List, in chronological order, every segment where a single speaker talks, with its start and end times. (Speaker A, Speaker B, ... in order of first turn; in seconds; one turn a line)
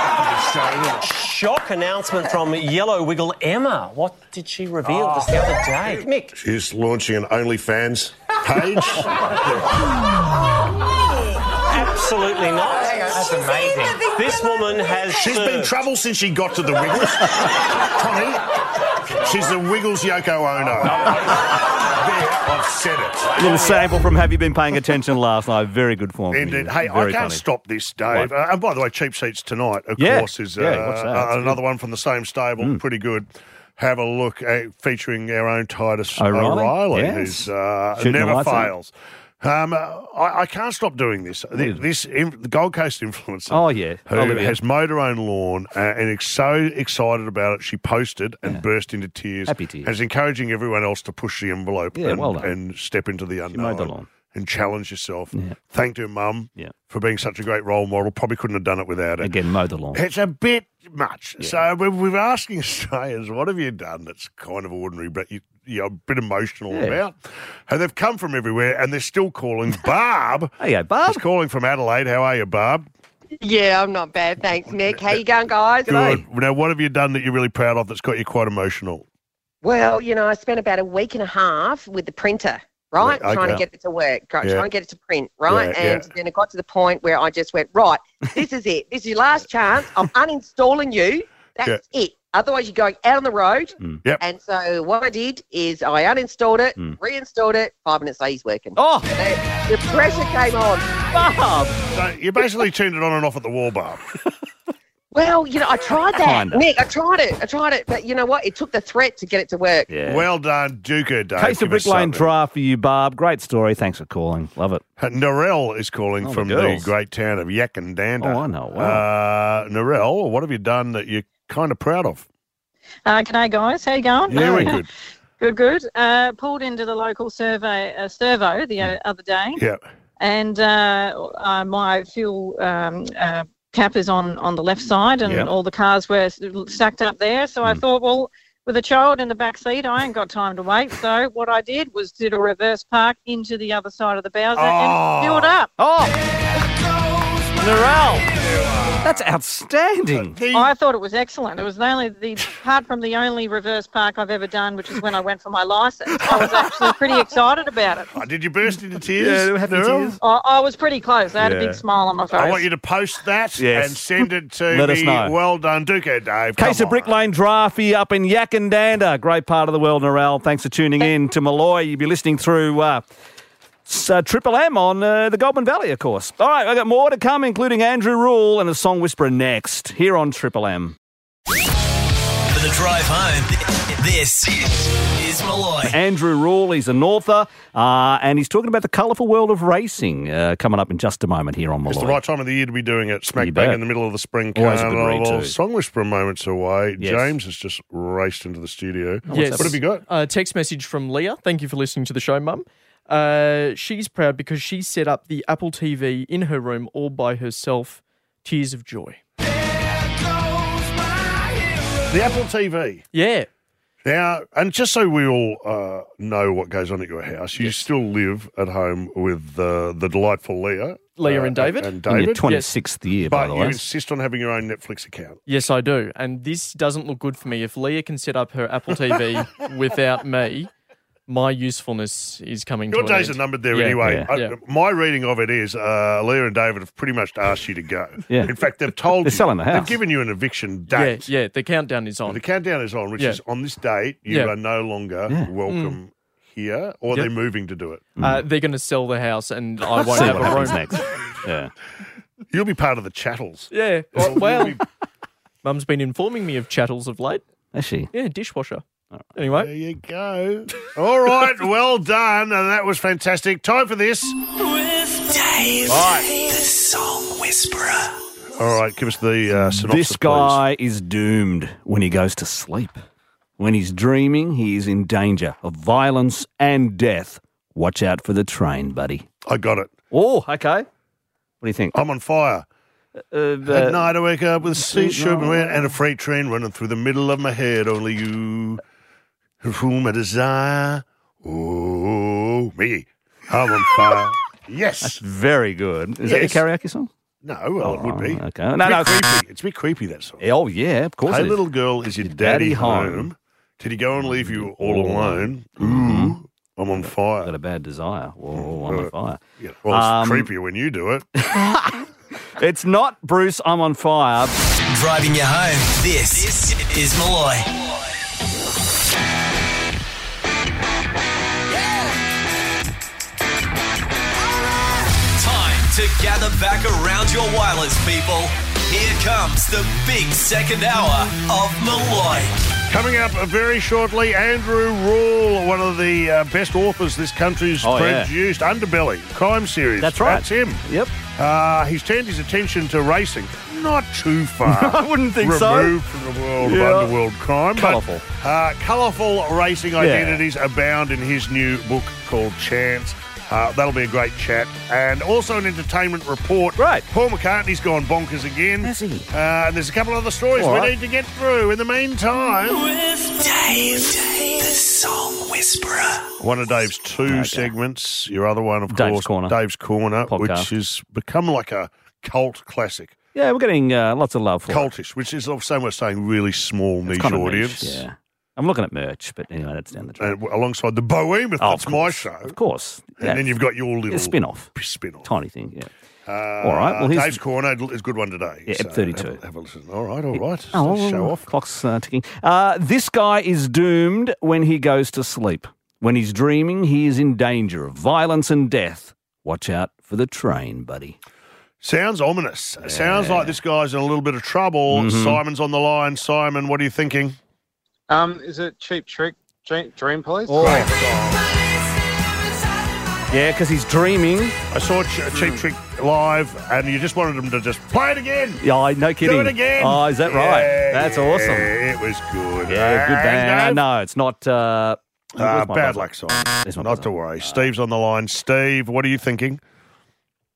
Speaker A: 0.5-0.8
Speaker B: 0.9-6.3
Speaker A: 6.3-9.1
Speaker B: 11.7-15.8
Speaker A: 15.1-18.4
Speaker A: 19.1-23.6
Speaker C: 23.4-27.4
Speaker A: 26.3-59.3
Speaker C: 30.0-31.6
Speaker C: 36.2-38.7
Speaker C: 41.5-41.8
Speaker C: 43.5-44.6
Speaker C: 49.5-49.9
Speaker C: 52.0-52.5
Speaker C: 53.5-54.1
Speaker C: 59.2-60.0
Speaker A: 59.9-70.5
Speaker C: 66.7-67.0
Speaker C: 70.6-71.2
Speaker A: 71.0-72.9
Speaker D: 73.4-75.9
Speaker A: 74.9-75.2
Speaker C: 75.9-76.2
Speaker A: 75.9-79.0
Speaker D: 79.6-100.8
Speaker A: 83.0-83.6
Speaker A: 85.5-86.1
Speaker C: 98.8-99.1
Speaker C: 101.1-101.8
Speaker A: 101.9-104.0
Speaker D: 105.1-109.9
Speaker C: 106.2-106.7
Speaker C: 109.9-110.2
Speaker A: 110.1-112.3
Speaker C: 111.4-114.8
Speaker A: 115.0-122.2
Speaker C: 116.2-116.9
Speaker C: 118.2-119.0
Speaker E: 123.0-124.8
Speaker C: 124.3-124.8
Speaker A: 124.3-124.9
Speaker E: 125.4-129.6
Speaker A: 129.6-129.8
Speaker E: 130.2-145.7
Speaker C: 135.2-135.5
Speaker A: 144.5-145.5
Speaker C: 145.8-146.2
Speaker C: 147.6-148.3
Speaker A: 148.3-149.3
Speaker C: 149.0-150.4
Speaker A: 150.1-150.7
Speaker E: 150.5-158.1
Speaker A: 158.2-160.2
Speaker C: 159.2-160.2
Speaker E: 160.2-162.7
Speaker C: 161.4-161.8
Speaker A: 162.3-167.1
Speaker C: 163.6-165.3
Speaker C: 166.6-173.0
Speaker C: 173.9-180.9
Speaker F: 182.5-186.0
Speaker C: 185.9-192.2
Speaker A: 191.9-200.0
Speaker C: 193.4-193.8
Speaker C: 194.5-195.6
Speaker C: 197.0-197.3
Speaker C: 199.3-199.8
Speaker G: 199.3-209.2
Speaker A: 212.1-213.0
Speaker G: 213.1-213.5
Speaker A: 214.0-222.6
Speaker G: 221.2-222.7
Speaker C: 222.1-223.8
Speaker A: 223.3-225.4
Speaker G: 225.4-230.7
Speaker G: 231.3-234.5
Speaker A: 232.9-241.3
Speaker C: 234.0-234.3
Speaker C: 238.3-238.5
Speaker C: 239.1-240.0
Speaker G: 240.9-242.4
Speaker A: 242.2-248.1
Speaker G: 244.3-244.5
Speaker G: 245.7-246.0
Speaker C: 248.2-248.4
Speaker G: 248.2-251.0
Speaker C: 249.9-251.7
Speaker A: 250.2-250.7
Speaker A: 252.5-254.8
Speaker G: 253.7-254.8
Speaker G: 255.6-257.4
Speaker C: 257.7-258.1
Speaker G: 258.1-258.8
Speaker G: 259.4-259.7
Speaker A: 259.5-264.4
Speaker F: 264.9-268.1
Speaker C: 265.9-266.4
Speaker A: 268.5-270.6
Speaker C: 269.5-273.0
Speaker C: 273.6-279.3
Speaker A: 279.4-279.9
Speaker C: 280.1-280.9
Speaker C: 281.6-281.9
Speaker A: 281.9-282.6
Speaker C: 283.3-284.1
Speaker A: 283.6-288.8
Speaker C: 284.8-285.9
Speaker A: 289.6-295.2
Speaker C: 295.0-297.1
Speaker A: 296.2-296.6
Speaker A: 297.4-300.4
Speaker C: 297.8-299.3
Speaker C: 300.4-301.6
Speaker A: 301.3-307.5
Speaker C: 302.2-303.3
Speaker C: 304.2-306.4
Speaker C: 307.0-310.5
Speaker A: 308.5-311.2
Speaker C: 311.5-312.0
Speaker C: 312.6-314.5
Speaker F: 314.9-317.7
Speaker F: 325.2-332.6
Speaker A: 332.9-340.8
Speaker C: 337.8-338.3
Speaker C: 340.0-341.1
Speaker A: 341.4-362.9
Speaker C: 344.7-345.9
Speaker C: 346.6-347.1
Speaker C: 347.7-348.2
Speaker C: 350.0-350.4
Speaker C: 356.8-357.1
Speaker C: 358.8-359.3
Speaker C: 360.6-360.9
Speaker F: 363.1-366.3
Speaker A: 366.4-373.1
Speaker C: 367.3-367.7
Speaker C: 368.9-369.6
Speaker C: 370.3-370.7
Speaker C: 373.3-374.9
Speaker A: 374.7-378.0
Speaker C: 377.1-380.3
Speaker A: 380.2-382.6
Speaker C: 381.6-383.5
Speaker A: 383.2-385.3
Speaker C: 384.1-384.7
Speaker C: 385.2-385.9
Speaker A: 386.3-391.4
Speaker C: 386.6-387.4
Speaker C: 388.7-389.4
Speaker C: 390.3-401.2
Speaker A: 401.8-407.4
Speaker C: 402.8-403.6
Speaker C: 404.9-405.4
Speaker H: 408.1-410.6
Speaker C: 410.5-410.9
Speaker A: 410.6-411.4
Speaker C: 413.3-414.6
Speaker A: 414.7-418.6
Speaker C: 418.6-421.7
Speaker A: 419.2-423.8
Speaker C: 422.7-427.7
Speaker A: 425.4-429.6